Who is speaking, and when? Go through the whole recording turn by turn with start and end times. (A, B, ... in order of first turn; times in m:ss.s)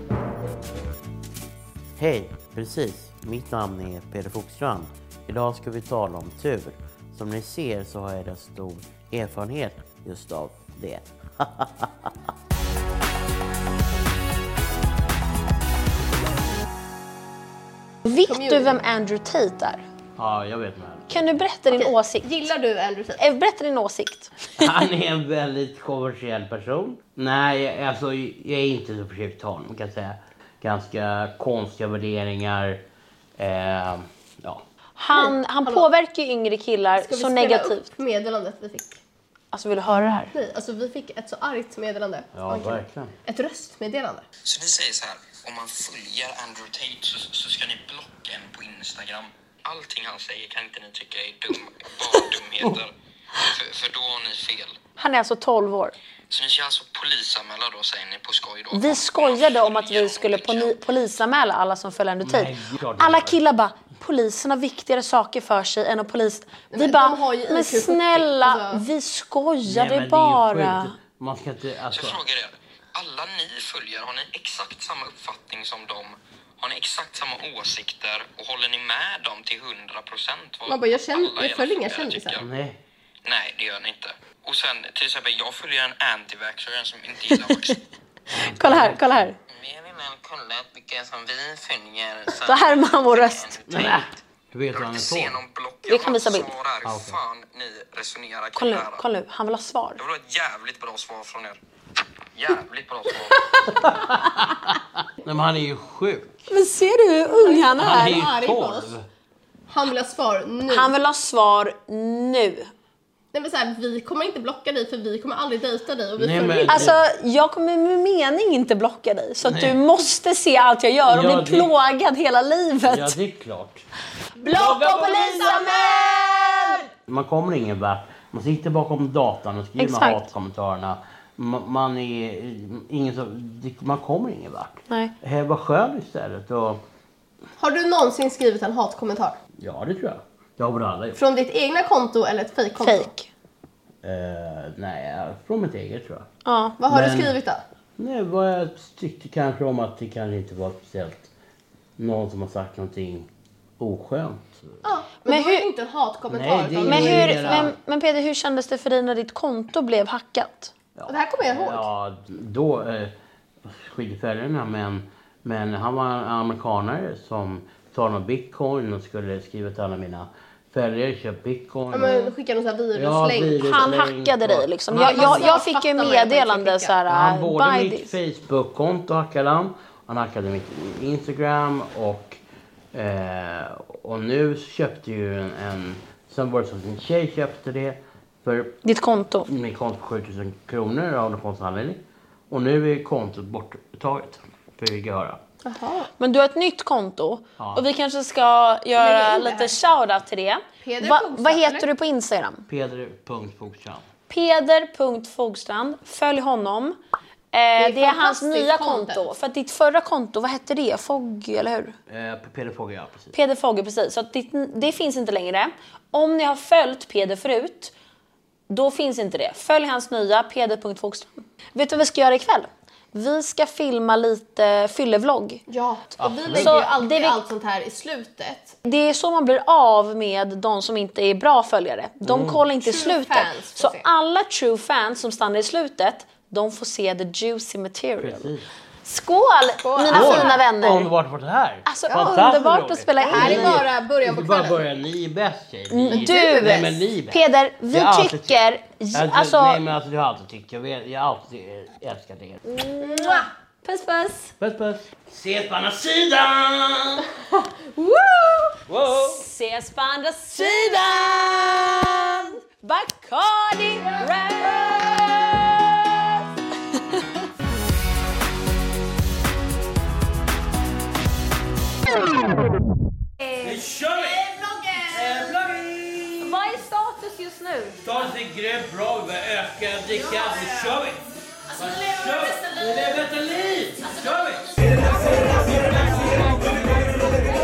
0:02.0-0:12.1 A
0:18.0-0:19.8 B
0:18.3-0:18.8 C
0:20.2-0:21.3 A
0:21.1-0:22.5 B
0:21.7-0:23.2 C
0:23.2-0:24.7 B
0:24.6-0:32.8 A
0:33.4-0:34.6 A
0:35.0-0:37.9 B
0:35.1-0:35.9 C
0:37.0-0:39.0 C
0:39.5-0:40.3 B
0:40.3-0:44.2 C
0:42.3-0:43.1 A
0:44.4-0:54.8 D
0:55.0-0:55.9 B
0:56.3-1:00.7 D
0:58.7-1:10.9 B
1:02.2-1:03.4 A
1:06.7-1:08.8 C
1:09.6-1:12.2 A
1:11.9-1:22.5 D
1:20.7-1:22.4 C
1:22.4-1:22.8 A
1:23.2-1:27.8 D
1:27.3-1:27.8 B
1:28.3-1:29.4 B
1:28.3-1:29.2 A
1:29.5-1:34.0 D
1:32.4-1:33.6 B
1:33.7-1:35.4 A
1:34.7-1:39.0 D
1:35.8-1:36.5 B
1:36.8-1:37.2 A
1:38.6-1:40.0 B
1:40.0-1:41.6 D
1:42.3-1:43.8 D
1:43.7-1:46.5 A
1:46.5-1:48.2 B
1:47.3-1:48.9 C
1:47.8-1:49.0 A
1:49.7-1:50.9 C
1:50.7-1:52.7 B
1:53.3-1:57.0 C
1:56.2-1:57.0 A
1:56.7-2:03.2 B
1:59.4-1:59.8 A
2:01.0-2:01.7 A
2:02.9-2:03.8 A
2:04.4-2:06.8 B
2:04.4-2:06.1 A
2:06.8-2:16.8 A
2:09.8-2:10.3 B
2:17.6-2:19.4 C
2:19.6-2:21.2 A
2:21.2-2:23.1 C
2:22.8-2:23.3 B
2:24.0-2:26.3 A
2:26.4-2:26.8 B
2:26.8-2:27.6 C
2:26.9-2:27.3 A
2:28.0-2:31.3 A
2:32.0-2:34.8 A
2:34.8-2:37.7 C
2:35.2-2:35.6 B
2:36.3-2:37.7 A
2:36.8-2:40.7 B
2:41.0-2:52.2 A
2:41.1-2:41.9 C
2:51.9-2:53.7 C
2:52.0-2:52.3 B
2:52.9-2:55.5 A
2:53.6-2:58.1 B
2:54.9-2:57.0 C
2:57.1-3:02.4 A
3:02.9-3:08.8 A
3:08.8-3:09.5 B
3:09.5-3:15.4 A
3:15.6-3:16.1 C
3:16.2-3:22.7 B
3:17.6-3:17.8 A
3:19.0-3:19.7 C
3:20.8-3:21.9 C
3:22.7-3:24.0 A
3:24.3-3:27.0 B
3:27.5-3:32.0 B
3:27.8-3:29.3 C
3:32.1-3:33.3 A
3:33.3-3:37.9 B
3:38.7-3:45.6 B
3:45.7-3:48.8 C
3:46.2-3:46.8 A
3:46.5-3:47.4 B
3:48.8-3:58.5 B
3:52.2-3:52.6 A
3:52.8-3:54.1 C
3:58.2-3:58.7 A
3:59.0-4:01.1 B
3:59.8-4:00.6 C
4:00.1-4:07.4 A
4:01.8-4:03.8 B
4:03.2-4:04.8 C
4:05.9-4:09.8 B
4:06.1-4:06.8 C
4:07.9-4:08.6 A
4:09.1-4:12.6 A
4:12.6-4:14.5 B
4:13.0-4:13.5 C
4:14.6-4:17.3 A
4:17.9-4:18.8 C
4:18.9-4:19.4 A
4:19.1-4:26.3 B
4:26.9-4:27.4 B
4:33.6-4:36.6 A
4:36.4-4:38.0 B
4:38.0-4:46.5 A